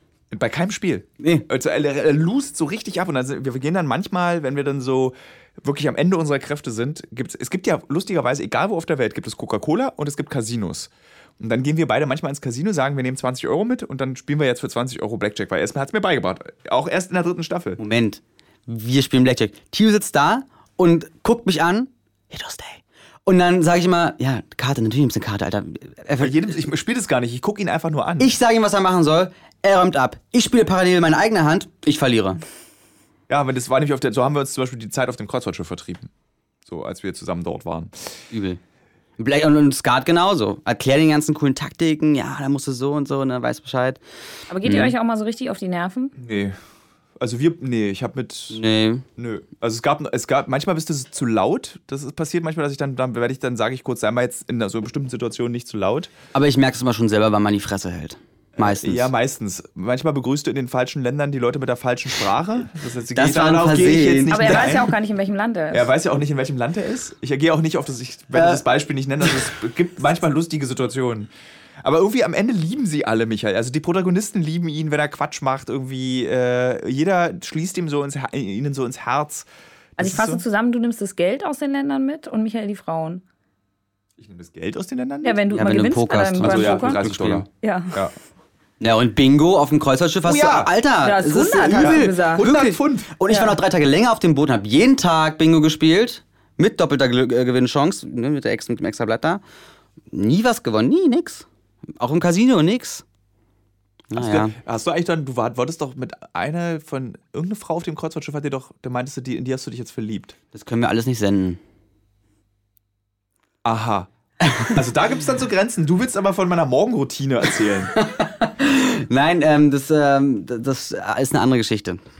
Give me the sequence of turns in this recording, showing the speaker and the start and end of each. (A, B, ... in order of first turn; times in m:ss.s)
0:00.3-0:17.8 A
0:17.8-0:26.6 B
0:26.2-0:28.3 A
0:28.2-0:32.4 B
0:33.3-0:36.1 A
0:36.7-0:37.9 A
0:38.3-0:38.6 B
0:39.2-0:44.0 B
0:44.5-0:46.2 C
0:44.6-0:44.9 B
0:46.2-0:46.6 A
0:47.2-0:48.6 A
0:48.5-0:49.0 B
0:49.2-0:56.1 A
0:56.3-0:59.1 B
0:58.6-1:04.9 A
1:03.1-1:04.9 B
1:04.3-1:05.9 C
1:05.7-1:11.3 A
1:08.3-1:08.6 B
1:11.8-1:19.5 A
1:20.0-1:20.4 A
1:20.0-1:23.2 C
1:24.2-1:25.4 A
1:25.2-1:27.0 C
1:25.5-1:27.5 B
1:26.4-1:28.1 A
1:27.6-1:28.0 C
1:28.8-1:39.4 B
1:30.2-1:30.7 A
1:31.0-1:32.5 C
1:31.8-1:33.1 A
1:33.3-1:33.6 C
1:40.1-1:41.5 B
1:42.0-1:43.0 B
1:44.1-1:44.6 B
1:44.2-1:50.4 A
1:50.5-1:51.6 B
1:53.6-1:58.0 A
1:54.4-1:54.7 B
1:57.9-2:02.0 B